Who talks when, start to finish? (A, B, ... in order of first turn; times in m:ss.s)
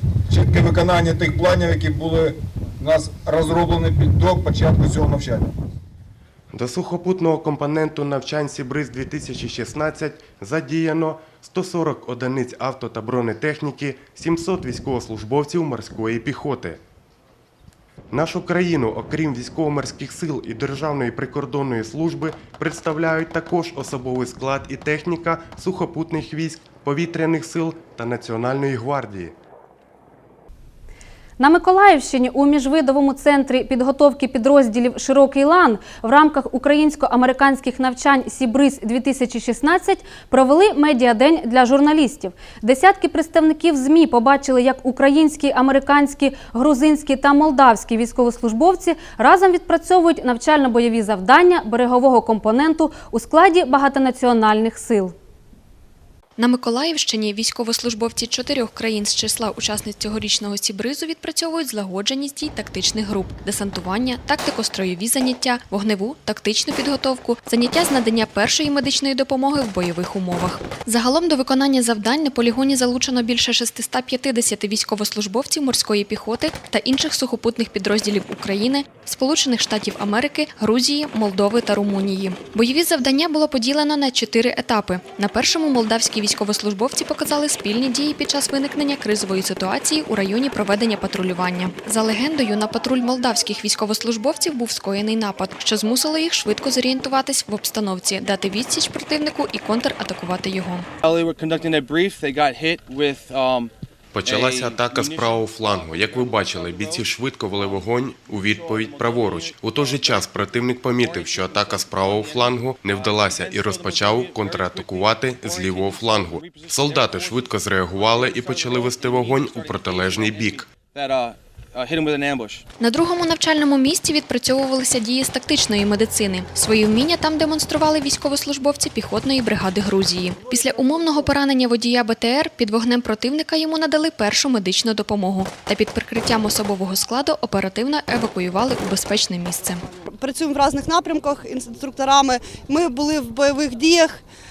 0:00.3-0:05.5 A
0:06.5-0:16.8 B
0:18.1-0:29.4 B
0:31.4-0:55.2 C
0:56.4-1:40.9 D
1:41.0-1:43.7 E
1:44.1-2:00.7 B
1:44.2-1:47.1 E
1:48.5-1:50.2 E
1:51.0-2:02.7 E
2:02.8-2:19.8 D
2:20.1-2:24.2 F